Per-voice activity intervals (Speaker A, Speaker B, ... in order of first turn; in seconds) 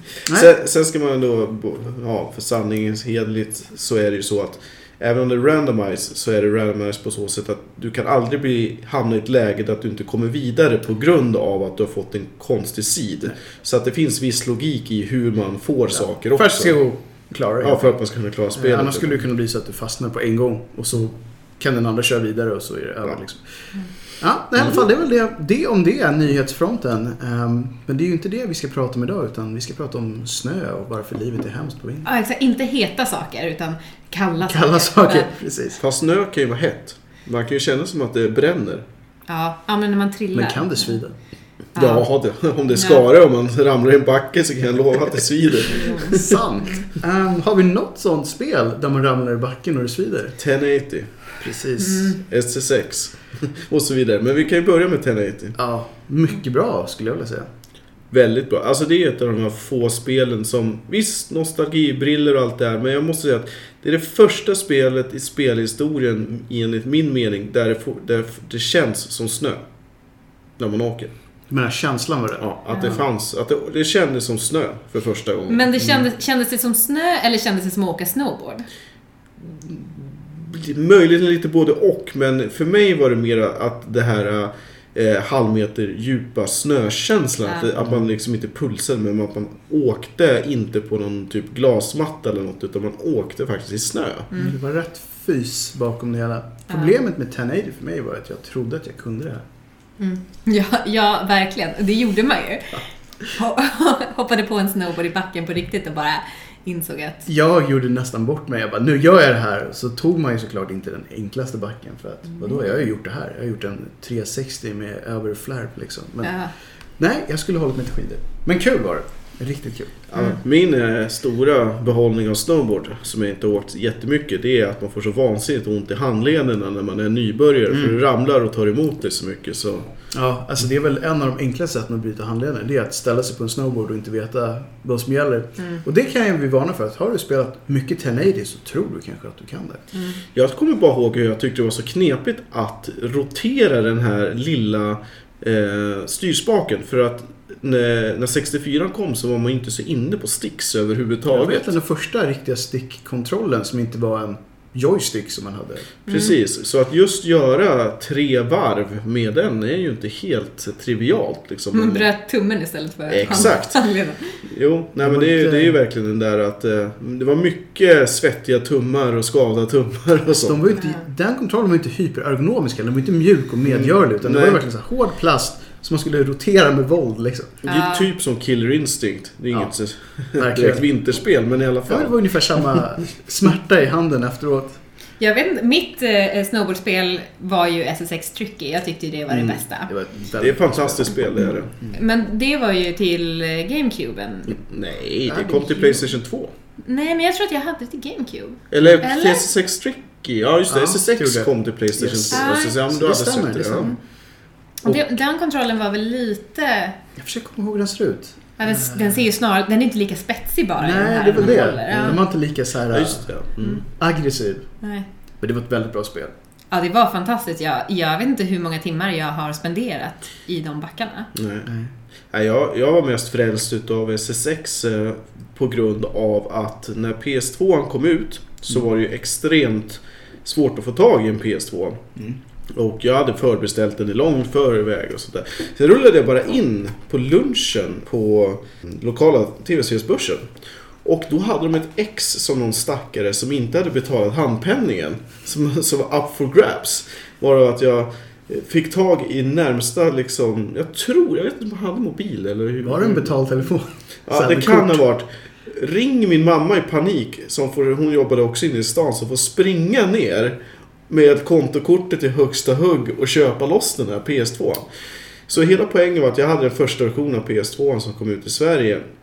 Speaker A: 0.2-0.5, 15.9-18.0, 18.5-32.1, 34.4-35.8, 40.3-41.1, 46.0-50.4, 51.4-52.2, 55.5-57.5, 71.5-73.0, 94.3-99.4, 107.3-116.3, 117.0-120.0, 127.7-128.0, 130.1-139.8, 151.3-155.9, 165.0-165.8, 170.4-177.6, 180.4-180.9, 181.9-184.8, 189.9-191.2, 200.7-204.0, 207.2-209.2, 210.8-213.3, 213.8-214.7, 215.4-216.3, 252.8-255.0
Speaker B: 0.3-16.8, 17.6-19.2, 35.8-38.9, 41.8-46.4, 50.4-51.1, 52.2-55.6, 58.1-69.6, 70.6-71.1, 72.4-75.8, 79.4-94.3, 120.1-129.9, 140.3-151.7, 156.1-162.1, 163.1-163.8, 164.4-170.8, 173.7-174.6, 177.6-182.2, 189.3-189.6, 190.4-191.7, 194.5-196.5, 198.7-203.9, 211.4-212.2, 212.9-213.8, 221.3-221.7, 222.3-232.0, 232.7-240.5, 241.0-253.3, 254.3-260.6, 261.1-264.9, 265.5-269.0
Speaker C: 32.0-35.3, 39.3-41.0, 41.8-42.1, 42.7-43.1, 72.7-73.0, 75.5-78.7, 87.5-87.8, 100.0-107.3, 116.2-116.5, 139.9-140.2, 161.7-164.4, 177.7-178.1, 185.2-189.9, 191.9-194.6, 195.4-196.0, 196.8-199.5, 202.3-202.8, 204.8-207.0, 208.6-212.2, 216.7-221.3